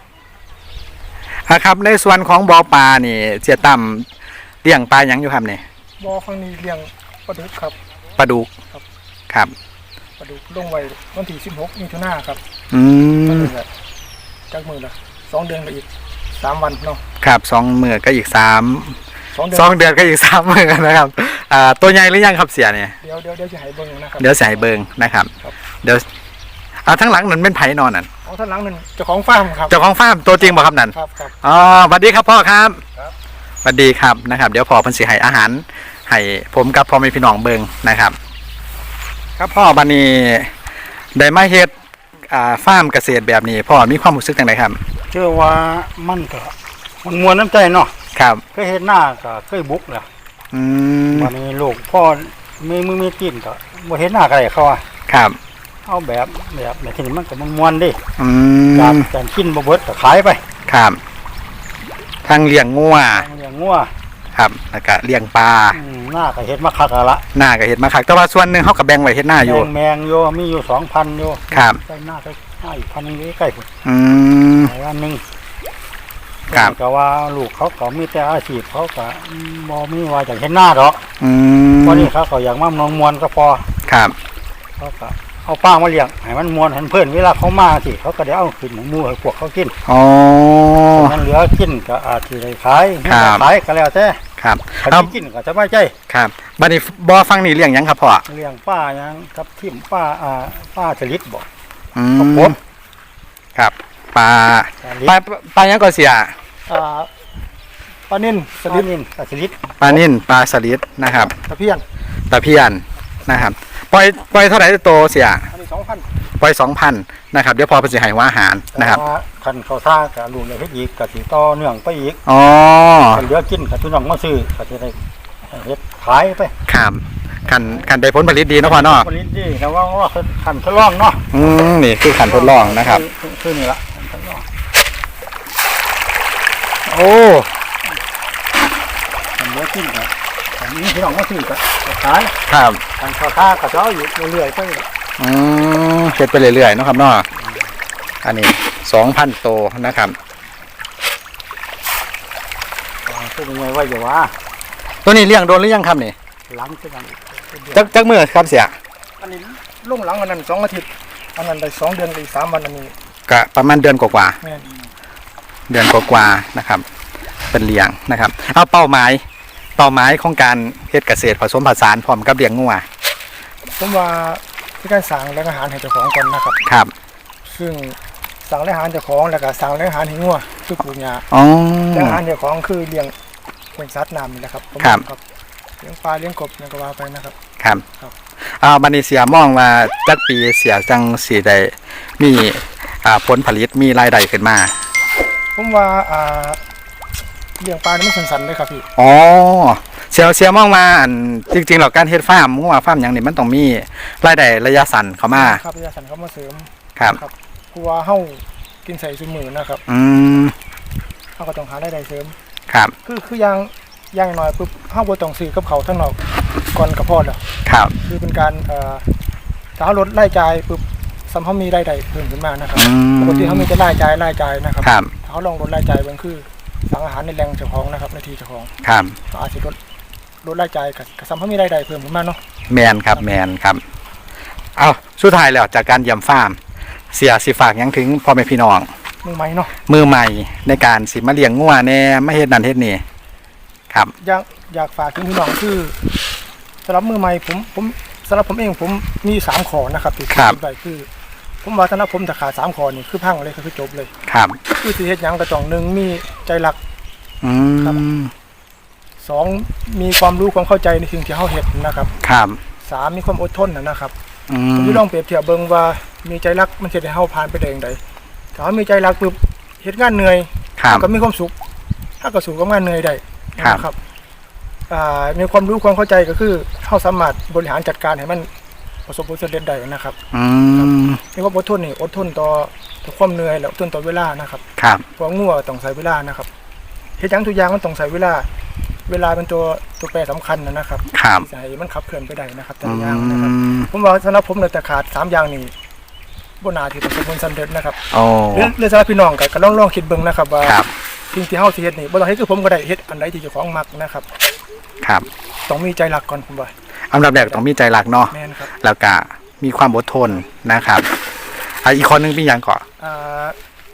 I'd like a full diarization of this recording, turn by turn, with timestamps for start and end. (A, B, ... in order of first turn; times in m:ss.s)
0:01.4-0:04.1 A
0:04.6-0:05.6 A
0:06.0-0:07.8 B
0:08.2-0:08.5 A
0:09.3-0:09.5 A
0:10.2-0:12.4 B
0:12.7-0:13.5 A
0:13.2-0:13.7 B
0:14.5-0:17.0 B
0:17.2-0:19.0 A
0:19.3-0:20.1 B
0:19.5-0:23.0 A
0:23.0-0:24.6 B
0:24.2-0:26.0 A
0:26.8-0:28.1 A
0:28.2-0:29.8 B
0:29.7-0:32.8 A
0:30.4-0:31.3 B
0:33.6-0:38.2 A
0:39.4-0:40.5 A
0:41.1-0:41.7 A
0:42.3-0:44.8 A
0:45.1-0:47.9 C
0:48.1-0:48.4 A
0:48.5-0:50.1 C
0:50.5-0:51.3 A
0:51.1-0:54.8 C
0:55.1-0:55.4 A
0:55.8-0:58.0 C
0:58.2-0:59.1 A
0:58.7-1:00.4 C
1:00.6-1:01.0 A
1:02.2-1:03.3 A
1:03.1-1:03.9 C
1:04.3-1:05.8 A
1:05.7-1:07.2 C
1:07.3-1:09.7 A
1:09.4-1:13.7 C
1:11.5-1:11.8 A
1:13.8-1:14.7 A
1:14.6-1:15.2 C
1:16.5-1:21.1 C
1:16.5-1:16.7 A
1:21.2-1:22.1 A
1:21.8-1:23.7 C
1:23.8-1:24.2 A
1:24.8-1:29.8 C
1:29.8-1:31.2 A
1:30.9-1:34.2 C
1:33.0-1:33.5 A
1:34.4-1:35.1 A
1:34.8-1:35.9 C
1:36.1-1:38.2 A
1:38.3-1:41.4 C
1:41.9-1:42.6 A
1:42.2-1:42.6 C
1:43.5-1:46.4 A
1:44.8-1:45.2 C
1:46.7-1:47.1 B
1:48.1-1:48.9 B
1:48.7-1:50.0 C
1:49.8-1:51.3 A
1:51.3-1:51.8 B
1:52.3-1:55.5 A
1:55.5-1:56.0 B
1:56.4-1:59.0 A
1:58.7-1:59.1 B
1:58.9-2:02.2 C
2:02.2-2:03.3 A
2:03.1-2:06.6 C
2:06.7-2:09.1 A
2:07.5-2:07.8 C
2:08.6-2:11.6 C
2:11.3-2:13.0 A
2:12.1-2:14.5 C
2:16.8-2:17.5 A
2:19.4-2:22.3 C
2:22.4-2:22.8 A
2:23.0-2:24.8 C
2:25.2-2:27.3 A
2:28.2-2:30.2 A
2:33.0-2:34.3 C
2:35.0-2:36.1 A
2:36.5-2:37.9 C
2:37.7-2:38.8 A
2:39.7-2:42.9 B
2:43.3-2:44.4 A
2:44.4-2:44.7 B
2:45.7-2:46.8 A
2:47.5-2:49.2 A
2:49.8-2:52.8 A
2:53.8-2:56.6 B
2:56.6-2:56.9 A
2:57.4-3:01.2 B
3:01.3-3:02.2 A
3:01.9-3:03.1 B
3:03.8-3:05.2 B
3:05.8-3:07.3 B
3:07.6-3:07.8 A
3:08.6-3:14.8 A
3:15.6-3:16.6 B
3:17.6-3:18.9 B
3:19.0-3:25.6 A
3:25.3-3:29.8 B
3:29.9-3:30.5 A
3:31.4-3:32.3 B
3:32.7-3:32.9 A
3:33.0-3:36.2 B
3:36.7-3:37.4 B
3:37.6-3:37.9 A
3:38.0-3:39.0 B
3:39.8-3:48.7 B
3:42.8-3:43.7 A
3:44.8-3:45.1 A
3:48.8-3:49.2 A
3:49.3-3:49.8 B
3:50.4-3:52.4 B
3:52.7-3:53.8 A
3:54.8-3:56.6 A
3:57.1-3:58.9 A
3:59.2-3:59.7 B
3:59.9-4:03.0 A
4:04.2-4:06.0 B
4:06.8-4:11.1 B
4:10.3-4:10.6 A
4:11.6-4:14.1 B
4:14.3-4:14.6 A
4:14.7-4:16.8 B
4:17.4-4:18.3 A
4:19.2-4:22.1 B
4:22.2-4:22.6 A
4:22.8-4:24.1 B
4:24.5-4:25.0 A
4:24.7-4:28.0 B
4:28.5-4:31.5 B
4:30.8-4:31.1 A
4:32.2-4:34.0 B
4:34.9-4:38.5 B
4:39.1-4:40.2 B
4:40.3-4:41.2 A
4:40.8-4:44.6 B
4:44.8-4:45.0 A
4:45.2-4:46.5 B
4:47.2-4:48.5 B
4:49.1-4:55.7 B
4:51.1-4:51.5 A
4:52.8-4:53.9 A
4:56.6-4:58.0 B
4:58.1-4:58.7 A
4:58.5-5:00.8 B
5:00.6-5:00.9 A
5:01.3-5:04.3 B
5:05.0-5:05.2 A
5:05.7-5:06.7 B
5:07.1-5:11.1 A
5:08.3-5:08.7 B
5:11.8-5:12.8 A
5:13.0-5:13.6 B